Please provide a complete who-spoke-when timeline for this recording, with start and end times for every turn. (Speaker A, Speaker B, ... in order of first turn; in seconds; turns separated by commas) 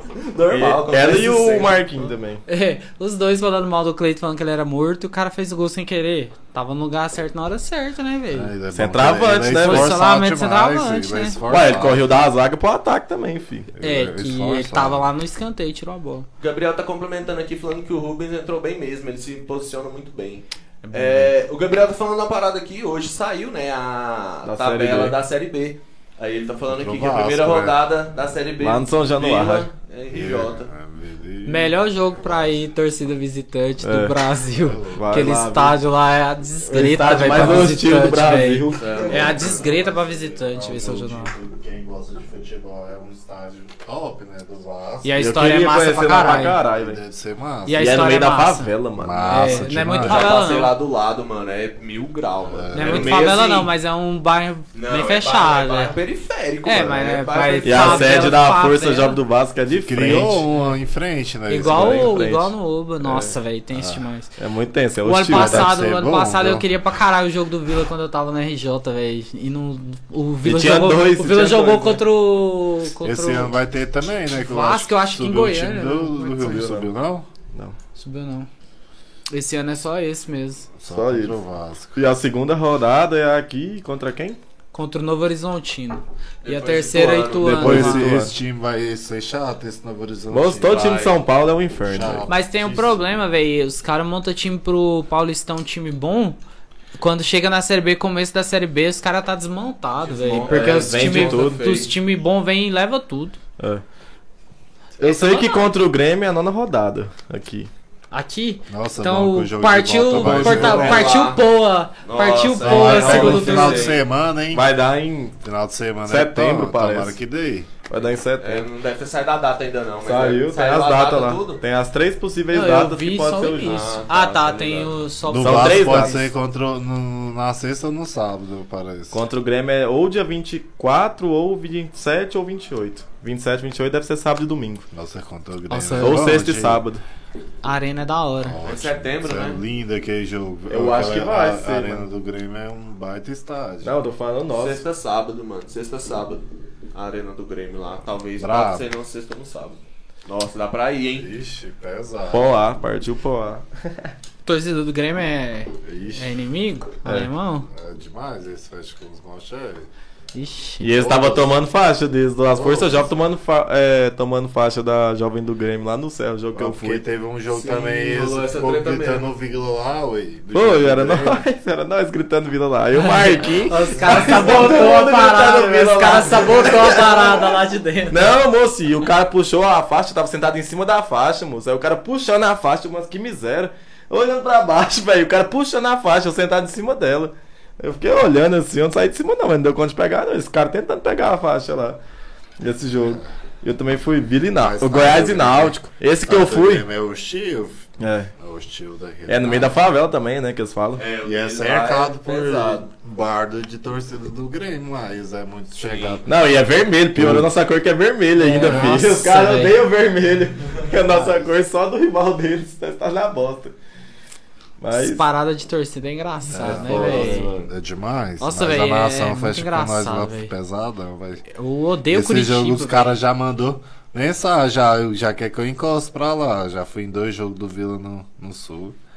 Speaker A: 0.1-2.0, Speaker B: 0.5-2.4, Speaker C: 2.5-8.5, Speaker D: 8.3-12.2, Speaker B: 8.7-9.9, Speaker C: 9.6-11.4, Speaker B: 11.5-13.7, Speaker D: 13.7-15.1, Speaker C: 13.8-16.3, Speaker A: 16.4-30.7, Speaker C: 20.9-21.2, Speaker B: 24.4-25.2, Speaker D: 26.7-27.8, Speaker B: 28.6-29.7, Speaker D: 30.1-32.7, Speaker C: 31.4-41.3, Speaker B: 33.8-34.2, Speaker D: 34.4-35.2, Speaker B: 34.9-35.8, Speaker B: 36.6-39.0, Speaker D: 37.4-37.6, Speaker A: 38.7-39.6, Speaker D: 38.9-45.2, Speaker C: 45.0-46.6, Speaker B: 45.2-47.0, Speaker D: 46.7-48.0, Speaker C: 47.7-48.7, Speaker B: 47.7-49.9, Speaker D: 49.0-50.4, Speaker C: 49.3-50.7, Speaker A: 50.0-53.7, Speaker D: 52.5-53.2, Speaker C: 52.7-55.9, Speaker A: 54.7-58.4, Speaker C: 56.6-59.2, Speaker D: 56.7-57.2, Speaker B: 57.6-60.4, Speaker D: 59.7-62.2, Speaker C: 61.5-64.3, Speaker B: 61.6-63.4, Speaker D: 63.7-64.0, Speaker B: 64.4-65.7, Speaker C: 65.0-73.5, Speaker D: 65.3-66.7, Speaker B: 70.4-72.0, Speaker D: 73.0-77.3, Speaker C: 74.3-76.6, Speaker B: 76.4-76.9, Speaker C: 77.9-78.5, Speaker C: 79.3-80.7, Speaker D: 80.8-81.9, Speaker B: 80.9-81.3, Speaker B: 81.9-84.4, Speaker C: 84.7-88.1, Speaker A: 86.4-87.6, Speaker B: 87.4-88.3, Speaker D: 87.5-91.1, Speaker B: 90.3-92.3, Speaker A: 90.7-91.2, Speaker D: 91.8-93.1, Speaker C: 92.3-96.4, Speaker C: 97.0-103.4, Speaker A: 100.0-101.9, Speaker B: 100.5-101.8, Speaker C: 105.0-105.7, Speaker B: 105.0-107.7, Speaker C: 108.1-113.9, Speaker D: 108.7-111.1, Speaker B: 110.2-111.1, Speaker A: 110.4-111.4, Speaker A: 112.0-113.9, Speaker D: 112.6-114.7, Speaker B: 112.9-113.9, Speaker B: 114.5-115.4, Speaker D: 115.4-117.7, Speaker B: 116.0-117.2, Speaker B: 117.9-118.7, Speaker A: 118.4-121.6, Speaker B: 120.0-123.9, Speaker C: 122.5-126.2, Speaker A: 123.6-124.9, Speaker D: 125.3-129.2, Speaker B: 125.4-126.2, Speaker B: 129.1-134.8, Speaker D: 134.9-136.8, Speaker C: 135.7-136.3, Speaker B: 136.0-137.0, Speaker C: 137.6-138.6, Speaker D: 138.4-143.9, Speaker A: 138.6-139.6, Speaker B: 140.7-142.1, Speaker B: 143.8-144.8, Speaker A: 144.5-151.3, Speaker D: 148.4-148.8, Speaker D: 151.2-152.5, Speaker B: 152.3-154.1, Speaker C: 154.4-157.7, Speaker D: 155.8-156.3, Speaker B: 157.0-157.3, Speaker D: 157.7-159.9, Speaker C: 160.3-160.9, Speaker B: 160.8-167.0, Speaker D: 160.9-161.5, Speaker D: 162.5-163.1, Speaker D: 166.5-171.4, Speaker A: 167.5-169.3, Speaker B: 170.5-177.5, Speaker C: 172.9-178.3, Speaker B: 178.1-192.0, Speaker B: 192.6-196.8, Speaker D: 194.5-197.9, Speaker B: 198.0-198.3, Speaker D: 198.4-199.8, Speaker B: 199.3-201.0, Speaker A: 201.0-202.9, Speaker D: 201.2-206.6, Speaker A: 205.8-206.2, Speaker B: 206.2-213.7, Speaker D: 207.1-207.5, Speaker C: 208.4-209.8, Speaker D: 208.6-209.0, Speaker D: 211.1-211.4, Speaker B: 214.8-215.2, Speaker C: 214.9-217.5, Speaker D: 216.5-221.4, Speaker B: 216.6-217.7, Speaker C: 218.4-220.5, Speaker C: 221.5-223.1, Speaker D: 222.1-229.0